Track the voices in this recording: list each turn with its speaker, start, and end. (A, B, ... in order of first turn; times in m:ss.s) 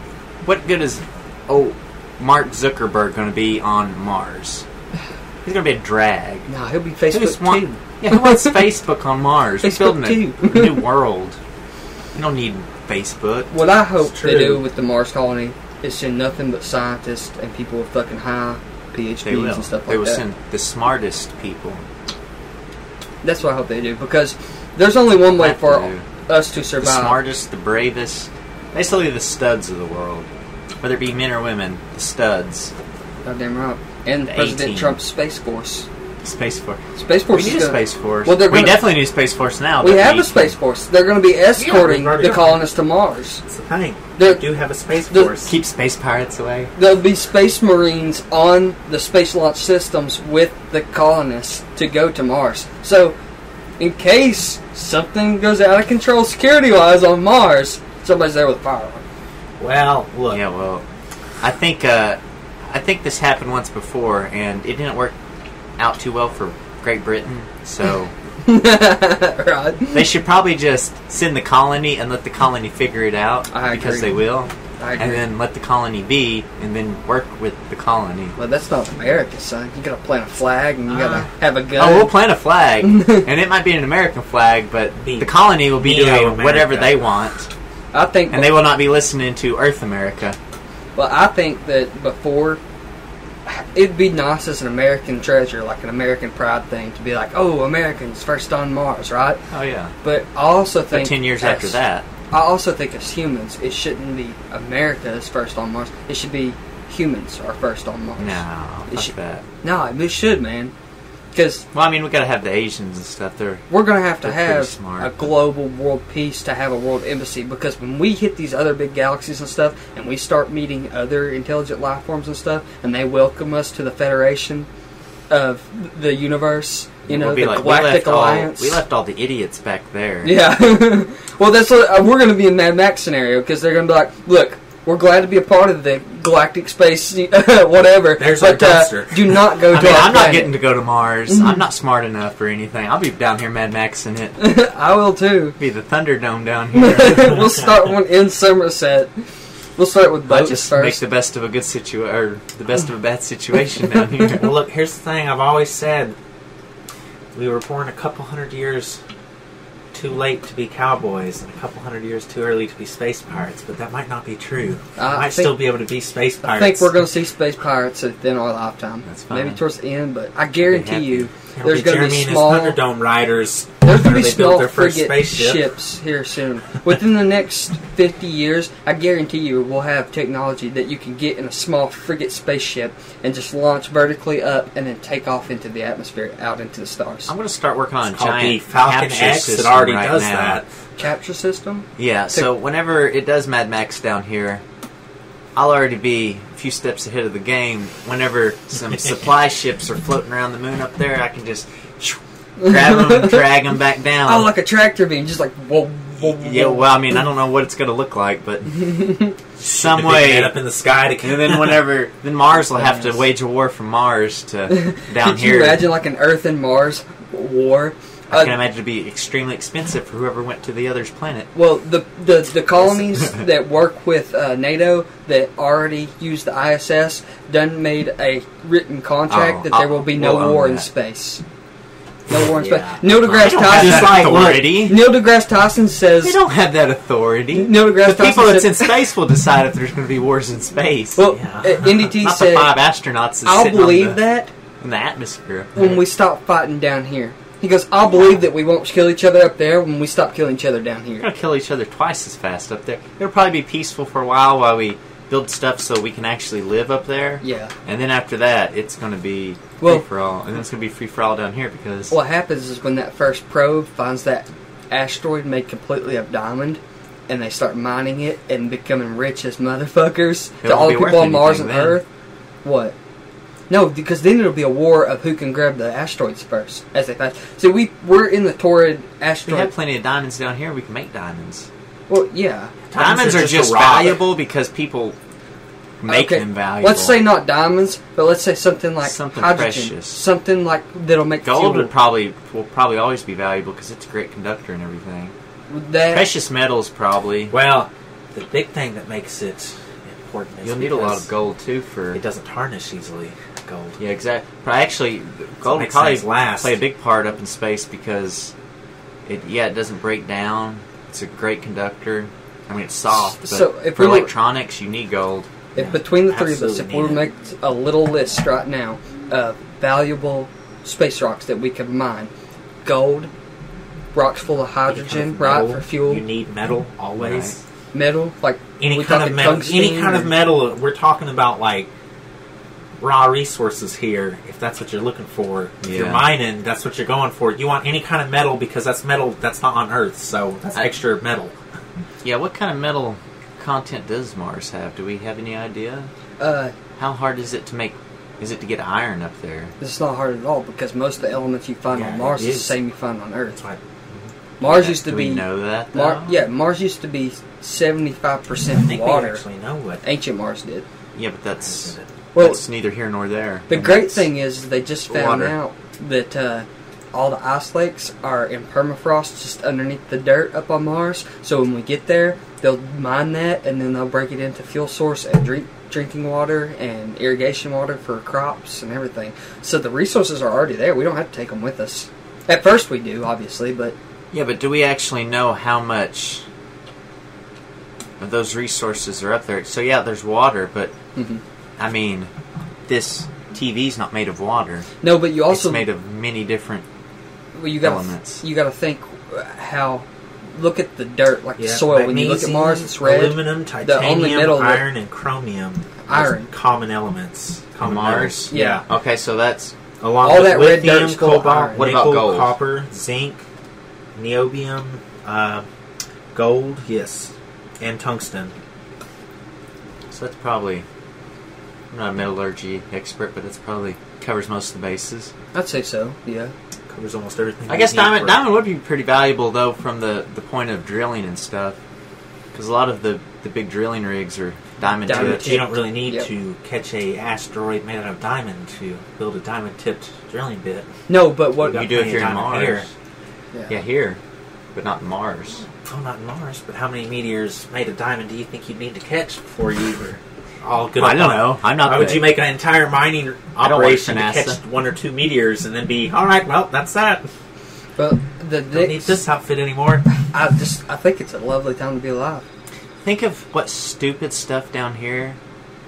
0:00.4-0:04.6 A
0:05.4-0:06.5 A
0:06.5-0:08.5 B
0:07.1-0:11.4 A
0:09.6-0:10.9 B
0:12.1-0:13.5 A
0:13.5-0:20.2 B
0:14.0-0:14.6 C
0:19.2-0:21.8 A
0:23.2-0:27.2 B
0:25.3-0:26.1 A
0:26.8-0:30.3 A
0:30.8-0:32.7 A
0:33.2-0:35.9 B
0:34.3-0:35.0 A
0:36.2-0:40.6 A
0:37.0-0:38.9 B
0:39.8-0:43.4 B
0:41.6-0:42.7 C
0:43.5-0:45.5 C
0:44.2-0:44.5 B
0:45.1-0:45.4 B
0:45.4-0:46.7 A
0:46.8-0:53.2 B
0:53.8-0:59.0 B
0:59.6-1:00.4 C
1:00.3-1:00.8 A
1:01.4-1:05.2 A
1:05.8-1:08.1 A
1:08.4-1:10.1 B
1:09.9-1:18.4 A
1:13.5-1:14.2 B
1:14.8-1:15.3 B
1:18.4-1:22.2 B
1:21.8-1:27.5 A
1:22.8-1:23.2 B
1:25.0-1:27.1 C
1:27.9-1:28.5 B
1:28.3-1:30.4 A
1:31.0-1:32.6 B
1:33.5-1:39.4 B
1:39.5-1:39.9 A
1:40.0-1:41.8 B
1:40.9-1:42.1 A
1:42.3-1:50.7 B
1:48.2-1:49.4 A
1:51.3-1:51.6 B
1:51.7-1:53.7 A
1:53.7-2:04.7 B
1:54.2-1:55.3 A
2:05.3-2:08.8 B
2:07.1-2:10.4 A
2:10.2-2:20.6 B
2:18.2-2:19.5 C
2:19.7-2:24.4 A
2:21.3-2:21.6 B
2:24.4-2:25.6 B
2:25.6-2:27.5 A
2:26.7-2:29.1 B
2:29.8-2:31.0 B
2:30.3-2:34.6 A
2:34.4-2:36.2 C
2:37.4-2:39.0 C
2:39.9-2:46.9 C
2:45.0-2:45.7 B
2:46.4-2:52.8 B
2:49.0-2:49.6 A
2:50.6-2:51.3 A
2:51.6-2:55.7 C
2:53.8-3:07.3 B
3:07.3-3:10.6 A
3:08.1-3:10.7 C
3:11.0-3:12.5 B
3:12.0-3:14.6 A
3:15.6-3:24.5 A
3:22.6-3:23.5 B
3:24.3-3:27.2 B
3:26.2-3:30.6 A
3:28.8-3:29.3 B
3:29.6-3:31.9 C
3:31.2-3:35.9 A
3:34.7-3:38.6 B
3:38.3-3:41.5 A
3:41.6-3:51.4 B
3:49.3-3:50.9 A
3:52.3-3:56.4 B
3:52.4-3:54.7 C
3:53.1-3:55.1 A
3:56.2-4:01.2 A
3:57.5-3:59.0 B
4:01.2-4:02.8 B
4:01.3-4:02.0 C
4:01.9-4:04.2 A
4:03.4-4:04.5 B
4:04.8-4:06.0 A
4:05.8-4:11.3 B
4:11.2-4:22.2 A
4:17.4-4:17.7 B
4:22.1-4:32.0 B
4:30.6-4:32.0 A
4:32.6-4:33.0 B
4:33.7-4:39.7 B
4:39.5-4:41.7 A
4:42.1-4:42.7 B
4:42.9-4:44.2 C
4:43.0-4:45.2 A
4:46.0-4:47.2 A
4:46.1-4:51.9 B
4:49.0-4:50.2 A
4:51.4-4:55.3 A
4:55.7-4:56.3 B
4:56.1-4:57.6 A
4:57.5-5:01.3 C
5:00.6-5:02.2 A
5:02.1-5:04.0 C
5:04.0-5:08.5 A
5:05.6-5:06.8 C
5:09.3-5:15.5 A
5:13.1-5:14.3 B
5:15.8-5:22.3 B
5:15.8-5:17.3 C
5:22.8-5:23.3 B
5:24.1-5:26.2 B
5:24.9-5:27.6 C
5:27.2-5:27.6 A
5:27.9-5:30.3 B
5:28.8-5:31.9 C
5:33.0-5:41.5 C
5:35.8-5:36.3 A
5:42.2-5:46.1 A
5:46.4-5:46.7 B
5:47.0-5:49.7 A
5:49.8-5:53.6 B
5:51.9-5:52.8 C
5:53.6-5:54.3 C
5:54.6-5:59.4 B
5:54.6-5:56.4 A
5:58.8-6:00.0 C
6:00.0-6:00.8 B
6:01.2-6:04.3 A
6:01.6-6:02.1 C
6:02.3-6:02.6 B
6:03.7-6:24.0 B
6:05.1-6:05.6 A
6:24.3-6:26.4 A
6:28.2-6:30.9 A
6:31.2-6:31.4 B
6:31.8-6:32.3 A
6:32.9-6:34.9 A
6:35.0-6:35.9 B
6:35.5-6:36.8 A
6:37.6-6:44.9 B
6:37.8-6:38.4 A
6:41.6-6:48.8 C
6:46.1-6:46.5 B
6:47.8-6:49.7 A
6:48.5-6:48.8 B
6:50.0-6:53.4 C
6:50.2-6:51.9 B
6:51.8-6:52.5 A
6:54.2-6:55.7 C
6:56.3-6:58.5 C
7:00.1-7:00.8 A
7:01.9-7:05.3 A
7:05.5-7:06.5 B
7:06.9-7:08.4 C
7:07.7-7:11.8 A
7:12.5-7:15.6 A
7:14.8-7:16.3 B
7:15.1-7:20.9 C
7:21.1-7:21.9 B
7:21.6-7:22.9 C
7:21.7-7:22.9 A
7:23.5-7:23.8 B
7:23.7-7:24.2 A
7:24.8-7:25.6 A
7:25.8-7:37.3 C
7:31.0-7:32.4 A
7:33.6-7:34.6 A
7:38.0-7:39.2 B
7:38.7-7:40.0 C
7:40.3-7:42.5 B
7:43.0-7:45.4 A